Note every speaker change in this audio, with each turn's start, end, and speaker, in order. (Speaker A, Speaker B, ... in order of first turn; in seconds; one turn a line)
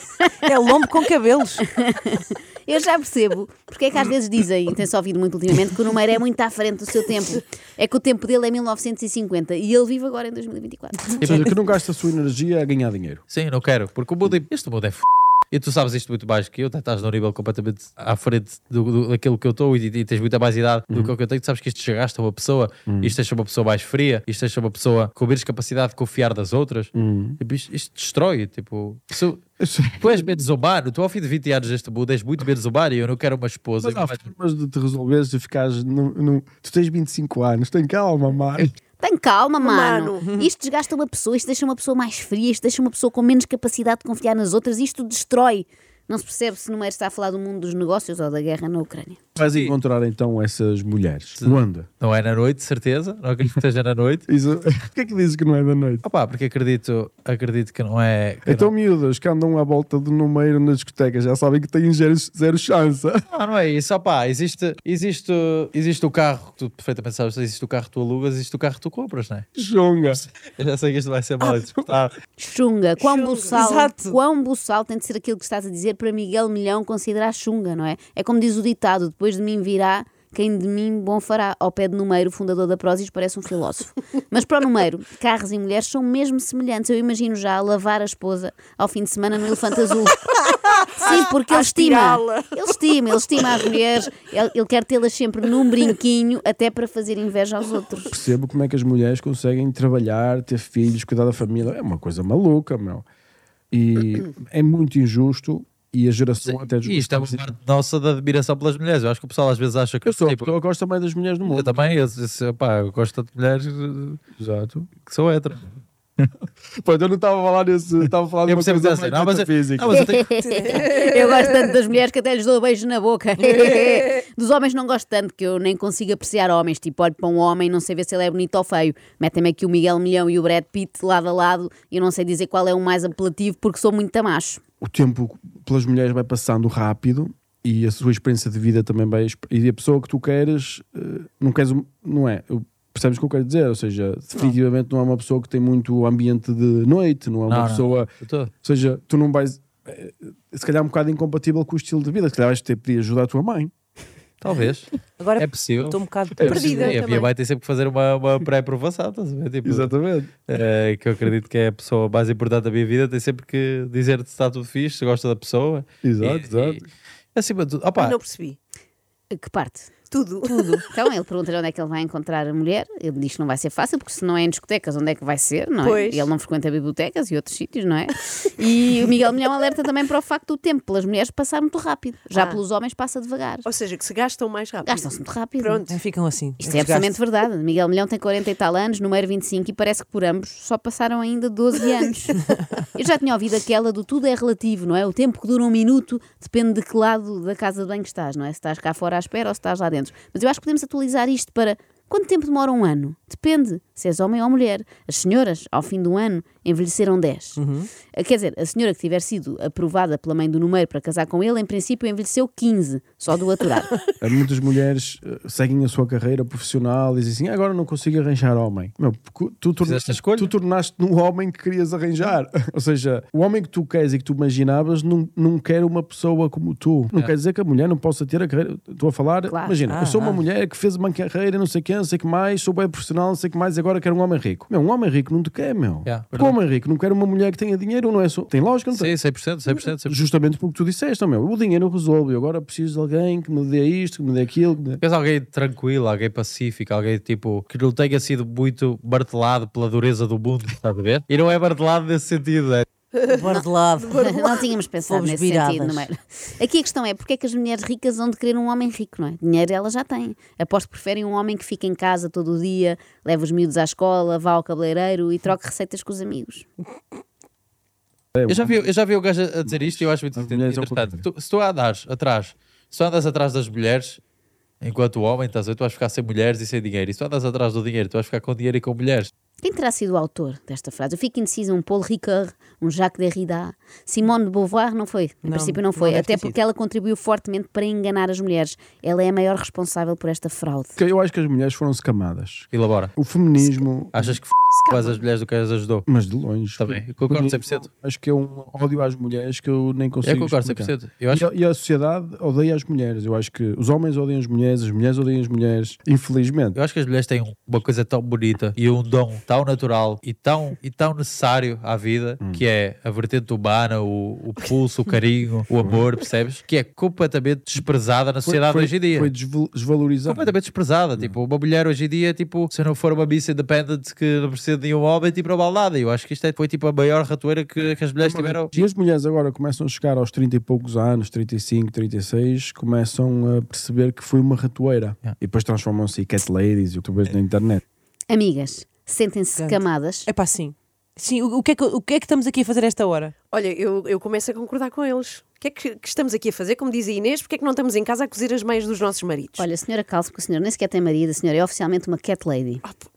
Speaker A: 0.4-1.7
Speaker B: 1.7-11.2
Speaker C: 11.2-13.2
Speaker D: 11.2-11.5
Speaker D: 13.3-29.4
Speaker C: 22.9-23.2
Speaker C: 26.9-27.4
Speaker C: 29.6-30.2
Speaker D: 30.0-34.3
Speaker C: 33.8-38.7
Speaker B: 39.0-49.2
Speaker E: 39.6-40.3
Speaker C: 49.4-51.9
Speaker D: 49.4-49.7
Speaker D: 51.4-54.2
Speaker C: 54.3-56.0
Speaker D: 56.0-58.7
Speaker C: 58.5-63.2
Speaker D: 63.3-69.5
Speaker C: 69.6-70.2
Speaker D: 70.2-72.1
Speaker E: 71.4-71.7
Speaker B: 72.4-90.3
Speaker E: 73.0-73.6
Speaker A: 73.5-74.2
Speaker E: 90.4-92.6
Speaker B: 90.9-98.1
Speaker C: 98.1-103.0
Speaker C: 103.7-107.5
Speaker D: 106.4-110.5
Speaker C: 110.0-111.8
Speaker D: 111.5-114.2
Speaker C: 114.4-114.9
Speaker D: 114.9-116.2
Speaker C: 116.8-120.0
Speaker D: 118.5-120.3
Speaker B: 119.9-134.6
Speaker A: 120.4-120.9
Speaker E: 120.8-121.2
Speaker E: 123.5-124.2
Speaker C: 134.8-148.1
Speaker D: 147.5-148.5
Speaker C: 148.6-153.7
Speaker D: 154.4-159.9
Speaker A: 155.2-157.0
Speaker C: 156.4-156.6
Speaker E: 156.4-157.3
Speaker C: 159.6-160.3
Speaker D: 160.5-166.8
Speaker C: 166.0-166.8
Speaker D: 167.3-168.2
Speaker E: 168.0-168.6
Speaker B: 169.3-169.9
Speaker E: 170.1-170.9
Speaker A: 170.5-170.8
Speaker B: 170.9-183.7
Speaker E: 175.8-176.3
Speaker E: 182.3-182.6
Speaker E: 183.6-186.0
Speaker B: 184.8-185.8
Speaker A: 185.9-187.2
Speaker B: 186.6-207.6
Speaker A: 207.6-207.9
Speaker B: 208.1-213.9
Speaker C: 214.2-239.1
Speaker D: 219.8-220.5
Speaker A: 229.9-230.4
Speaker D: 236.1-236.6
Speaker D: 238.9-240.2
Speaker C: 240.1-245.0
Speaker D: 245.0-252.9
Speaker E: 253.1-253.4
Speaker A: 253.3-254.2
Speaker B: 253.5-266.7
Speaker E: 254.0-254.7
Speaker A: 255.1-256.1
Speaker C: 268.4-268.8
Speaker D: 268.5-274.2
Speaker C: 269.7-271.2
Speaker D: 274.8-279.3
Speaker B: 279.6-291.0
Speaker A: 285.4-286.6
Speaker C: 291.0-294.4
Speaker D: 292.7-293.1
Speaker D: 294.1-296.1
Speaker E: 294.7-295.2
Speaker C: 296.1-306.8
Speaker D: 296.8-297.9
Speaker D: 300.2-301.5
Speaker D: 306.7-319.3
Speaker C: 318.4-320.6
Speaker D: 320.2-328.7
Speaker C: 328.2-337.8
Speaker B: 338.3-340.3
Speaker A: 339.6-343.4
Speaker E: 343.5-349.6
Speaker B: 349.6-352.8